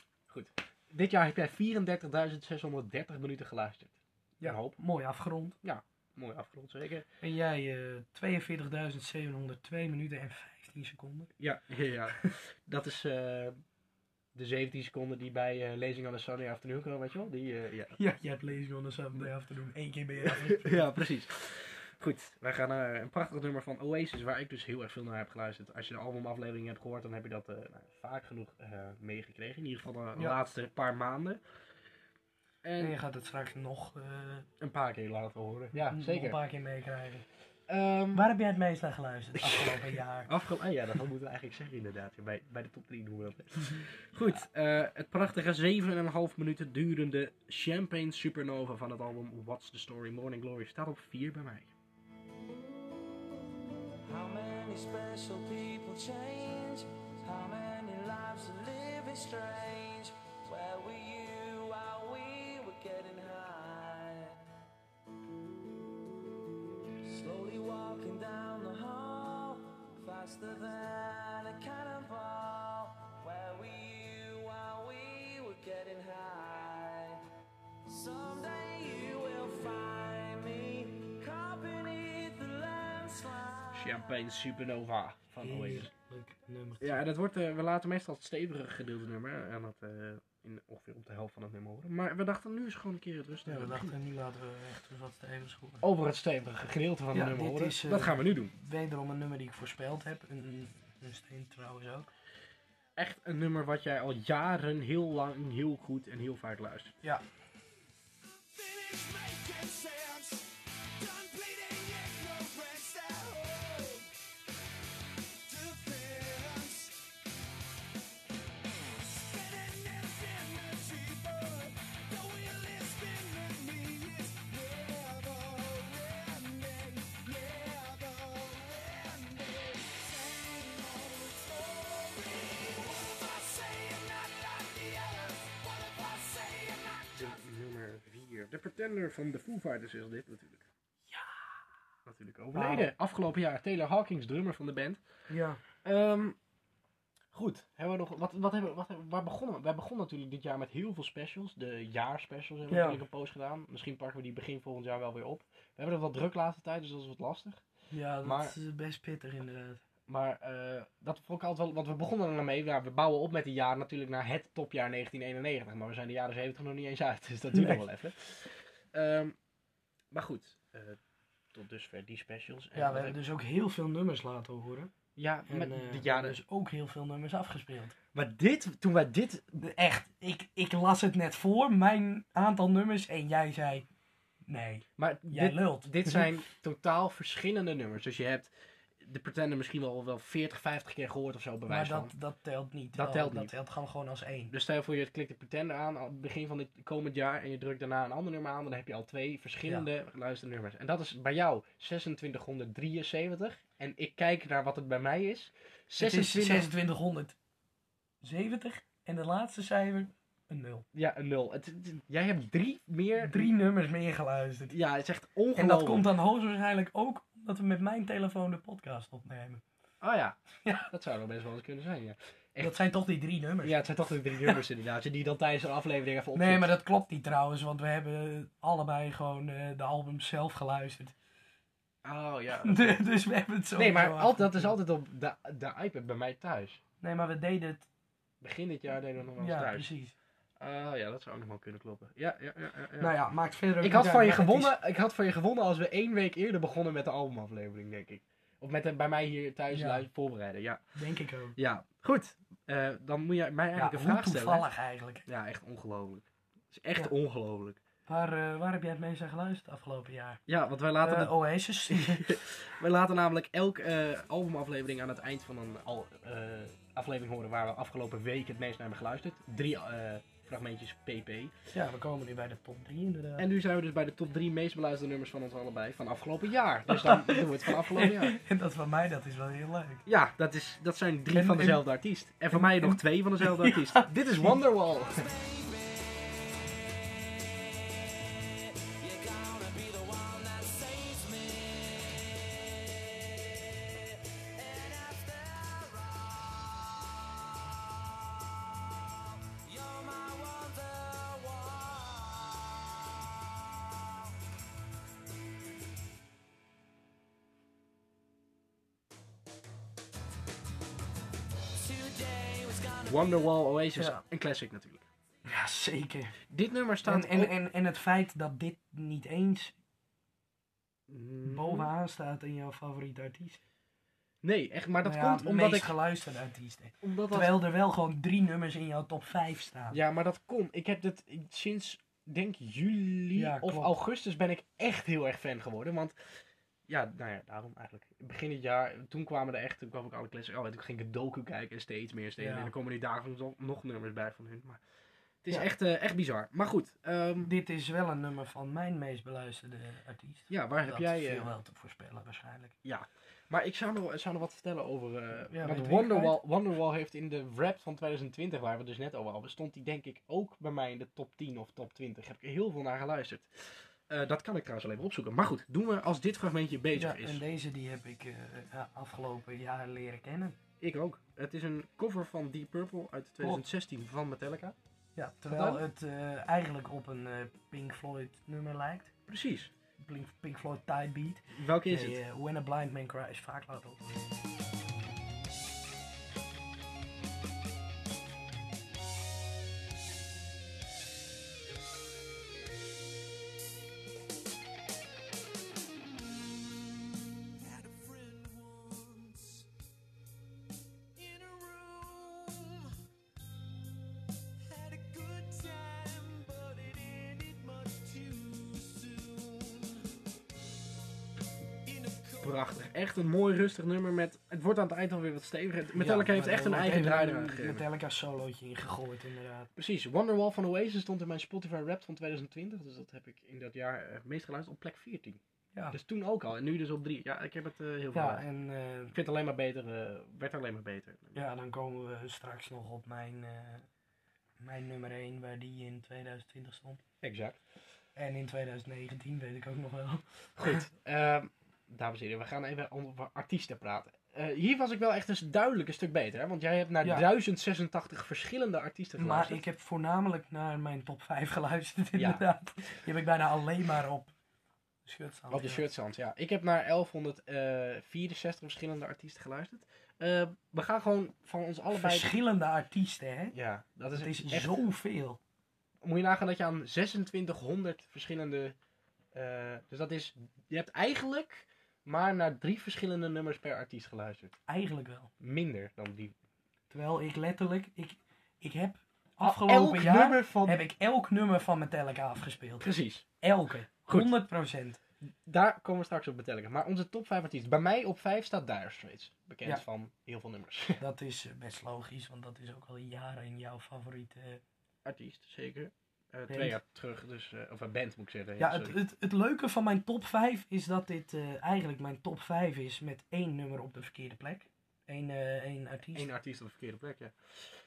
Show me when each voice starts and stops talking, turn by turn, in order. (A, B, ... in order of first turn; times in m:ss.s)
0:00.3-0:04.8 A
0:04.4-0:05.6 B
0:05.6-0:07.0 A
0:07.2-0:11.3 B
0:11.4-0:13.6 A
0:14.3-0:17.9 A
0:17.9-0:21.0 B
0:20.2-0:31.4 A
0:32.6-0:33.0 A
0:32.8-0:34.5 B
0:34.6-0:36.4 A
0:35.7-0:37.2 B
0:37.7-0:38.3 A
0:38.1-0:40.3 B
0:39.4-0:51.7 A
0:54.0-1:04.4 C
1:07.0-1:17.2 C
1:17.8-1:24.0 C
1:23.7-1:25.9 A
1:25.4-1:27.0 B
1:26.8-1:33.9 A
1:33.4-1:35.8 B
1:35.8-1:38.5 A
1:37.1-1:42.1 B
1:43.0-1:46.9 A
1:48.3-1:54.1 C
1:55.4-1:57.1 C
1:58.7-2:17.3 C
2:17.1-2:20.7 A
2:22.0-2:25.0 A
2:22.5-2:22.9 B
2:25.3-2:25.6 B
2:25.8-2:26.4 A
2:27.3-2:37.6 A
2:32.7-2:33.0 B
2:37.9-2:39.8 B
2:38.2-2:38.5 A
2:40.1-2:49.3 A
2:47.5-2:47.8 B
2:50.1-2:51.0 A
2:51.5-2:53.2 A
2:52.7-2:54.9 B
2:55.2-2:56.4 A
2:55.5-2:58.0 B
2:58.1-2:59.6 A
2:59.6-3:03.9 B
3:04.5-3:06.3 B
3:05.0-3:12.1 A
3:11.7-3:14.5 B
3:12.9-3:13.5 A
3:14.5-3:26.7 A
3:26.0-3:27.4 B
3:28.2-3:30.8 B
3:30.9-3:33.5 A
3:33.2-3:34.7 B
3:34.7-3:36.1 A
3:35.5-3:39.6 B
3:40.0-3:42.8 A
3:40.6-3:40.9 B
3:42.6-3:43.8 B
3:43.6-3:46.7 A
3:46.3-3:51.1 B
3:52.0-3:52.9 A
3:52.6-3:54.8 B
3:53.8-3:56.8 A
3:57.0-3:57.9 B
3:58.4-3:59.9 A
3:59.4-4:00.1 B
4:00.6-4:03.1 A
4:03.0-4:04.7 B
4:03.8-4:10.8 A
4:09.7-4:10.0 B
4:10.9-4:11.6 B
4:11.6-4:14.6 A
4:13.7-4:15.2 B
4:15.2-4:17.8 A
4:18.1-4:20.4 B
4:20.5-4:31.5 A
4:21.0-4:22.4 B
4:31.7-4:33.5 B
4:33.4-4:38.4 A
4:36.9-4:40.0 B
4:40.0-4:45.3 A
4:41.3-4:41.8 B
4:42.5-4:44.6 B
4:44.9-4:56.4 C
4:59.4-5:02.9 C
5:11.8-5:13.5 C
5:13.1-5:15.0 A
5:13.9-5:14.2 B
5:15.4-5:16.4 B
5:16.5-5:17.5 A
5:17.0-5:19.7 B
5:21.1-5:21.9 A
5:21.4-5:23.6 B
5:24.4-5:25.9 A
5:25.0-5:30.0 B
5:27.0-5:27.6 A
5:29.9-5:36.1 A
5:33.3-5:34.0 B
5:36.9-5:44.8 A
5:42.4-5:42.7 B
5:45.4-5:47.5 A
5:47.4-5:52.8 B
5:50.5-5:51.5 A
5:52.8-6:07.4 A
5:55.5-5:56.4 B
6:07.0-6:10.6 B
6:10.8-6:14.8 A
6:15.2-6:19.1 B
6:15.5-6:15.8 A
6:19.3-6:19.7 A
6:20.0-6:24.0 B
6:21.5-6:22.2 A
6:37.6-6:39.7 C
6:41.2-6:42.9 C
6:44.6-6:50.1 C
6:51.8-6:52.6 C
6:52.4-6:57.8 A
6:55.9-6:59.7 B
6:59.8-7:05.4 A
7:05.9-7:08.4 A
7:08.1-7:09.2 B
7:09.1-7:11.4 A
7:11.3-7:13.9 B
7:14.6-7:17.0 B
7:17.2-7:17.6 A
7:18.2-7:20.8 B
7:20.6-7:29.6 A
7:27.0-7:27.3 B
7:29.2-7:34.3 B
7:35.0-7:35.8 B
7:35.5-7:42.3 A
7:42.0-7:43.5 B
7:43.5-7:44.8 A
7:44.1-7:45.4 B
7:46.0-7:48.8 A
7:49.3-7:54.6 A
7:54.7-7:55.3 B
7:55.4-7:56.3 A
7:56.9-8:05.0 B
7:59.4-8:00.8 A
8:02.8-8:03.2 A
8:04.1-8:04.3 A
8:05.2-8:11.0 A
8:11.0-8:14.6 B
8:15.0-8:19.0 A
8:16.5-8:16.8 B
8:18.6-8:26.3 B
8:26.1-8:27.3 A